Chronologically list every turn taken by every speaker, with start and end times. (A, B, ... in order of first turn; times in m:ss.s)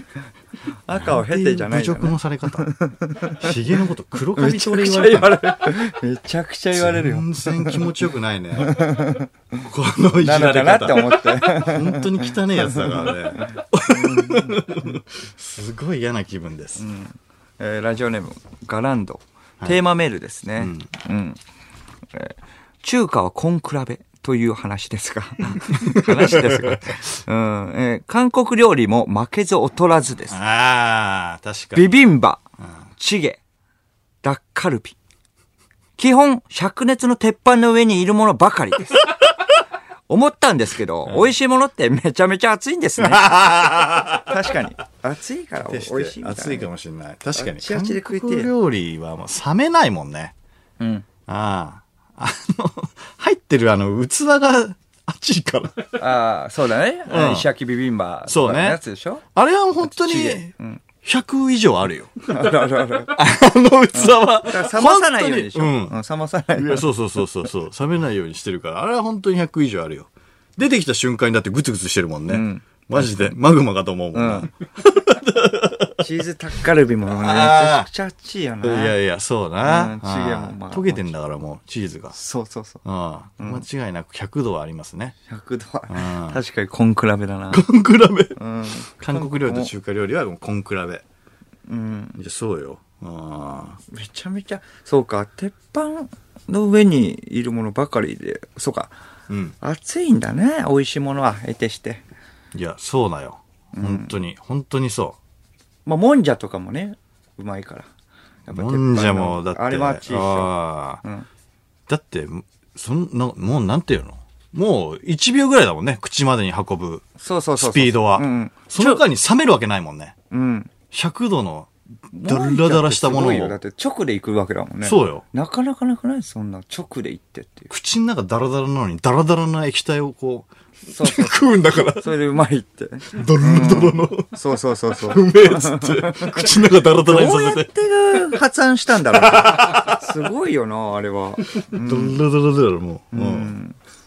0:00.9-0:03.5 A
0:01.0-0:02.8 B
0:03.3-0:05.6 B
0:04.4-0:07.9 A
0:06.7-0:09.0 B
0:08.6-0:09.3 A
0:09.6-0:16.9 B
0:10.2-0:13.1 A
0:13.9-0:14.6 A
0:16.8-0:21.4 A
0:20.6-0:20.9 B
0:22.1-0:30.4 A
0:25.5-0:26.8 B
0:30.3-0:32.0 B
0:31.7-0:32.4 A
0:33.0-0:33.4 A
0:34.2-0:35.0 A
0:36.0-0:39.0 A
0:40.1-0:46.7 A
0:43.0-0:44.4 B
0:45.7-0:50.3 B
0:47.4-0:48.5 A
0:50.8-0:51.1 A
0:51.3-0:56.0 B
0:56.0-0:59.2 A
0:57.1-0:57.5 B
0:58.3-0:58.8 B
0:59.3-1:00.5 B
0:59.8-1:00.8 A
1:01.0-1:02.3 B
1:02.3-1:03.2 A
1:03.1-1:06.0 B
1:03.9-1:06.9 A
1:06.6-1:16.0 B
1:12.3-1:13.1 A
1:14.1-1:14.5 A
1:16.0-1:19.0 A
1:17.1-1:17.9 B
1:18.6-1:22.2 B
1:19.6-1:21.1 A
1:22.1-1:22.8 A
1:22.8-1:25.2 B
1:23.4-1:23.6 A
1:25.3-1:27.6 A
1:25.9-1:26.4 B
1:27.5-1:28.4 B
1:28.4-1:29.7 A
1:28.9-1:31.0 B
1:31.7-1:32.2 A
1:32.2-1:33.8 B
1:33.9-1:38.9 A
1:39.3-1:39.6 B
1:39.6-1:42.0 A
1:42.5-1:45.2 B
1:43.8-1:44.1 A
1:45.9-1:47.9 A
1:48.5-1:50.5 A
1:48.5-1:51.0 B
1:51.0-1:51.3 A
1:51.9-2:00.2 B
1:57.2-1:59.0 A
2:00.3-2:00.7 A
2:00.9-2:01.7 B
2:02.1-2:07.7 A
2:02.2-2:03.6 B
2:04.8-2:05.2 B
2:07.7-2:12.1 B
2:10.9-2:22.2 A
2:13.1-2:14.4 B
2:15.1-2:17.7 B
2:19.2-2:20.0 B
2:21.5-2:23.6 B
2:23.1-2:23.8 A